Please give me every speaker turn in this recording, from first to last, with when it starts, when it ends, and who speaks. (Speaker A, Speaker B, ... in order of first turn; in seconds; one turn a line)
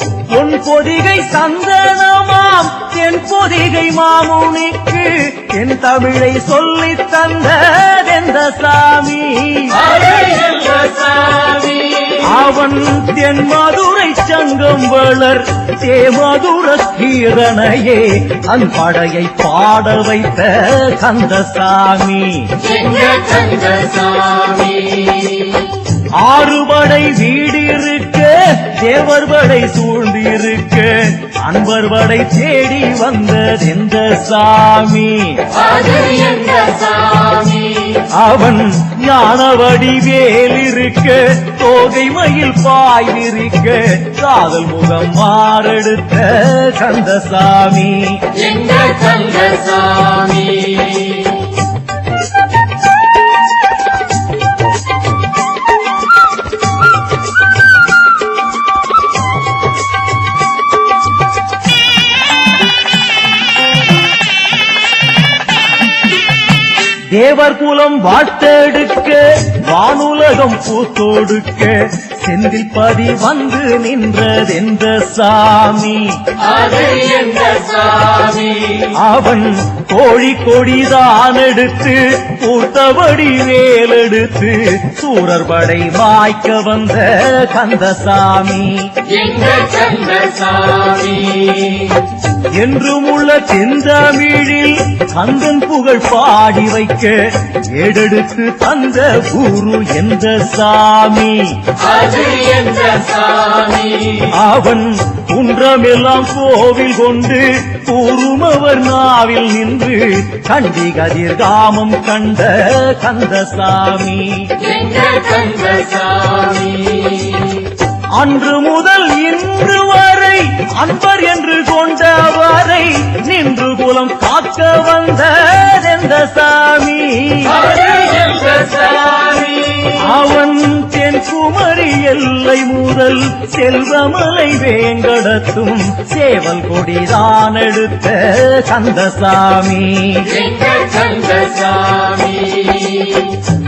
Speaker A: 0.3-9.8
Speaker B: 9.8-12.2
Speaker A: 12.2-22.6
Speaker B: 22.6-25.7
Speaker A: 26.2-35.5
Speaker B: 35.5-38.0
Speaker A: 38.0-48.4
Speaker B: 48.3-51.5
Speaker A: 67.1-76.3
Speaker B: 76.4-78.8
Speaker A: 78.8-89.0
Speaker B: 89.0-92.1
Speaker A: 92.5-101.8
Speaker B: 101.8-104.2
Speaker A: 104.2-114.7
Speaker B: 114.6-117.7
Speaker A: 118.1-127.7
Speaker B: 127.6-129.9
Speaker A: 129.9-140.4
Speaker B: 140.3-143.4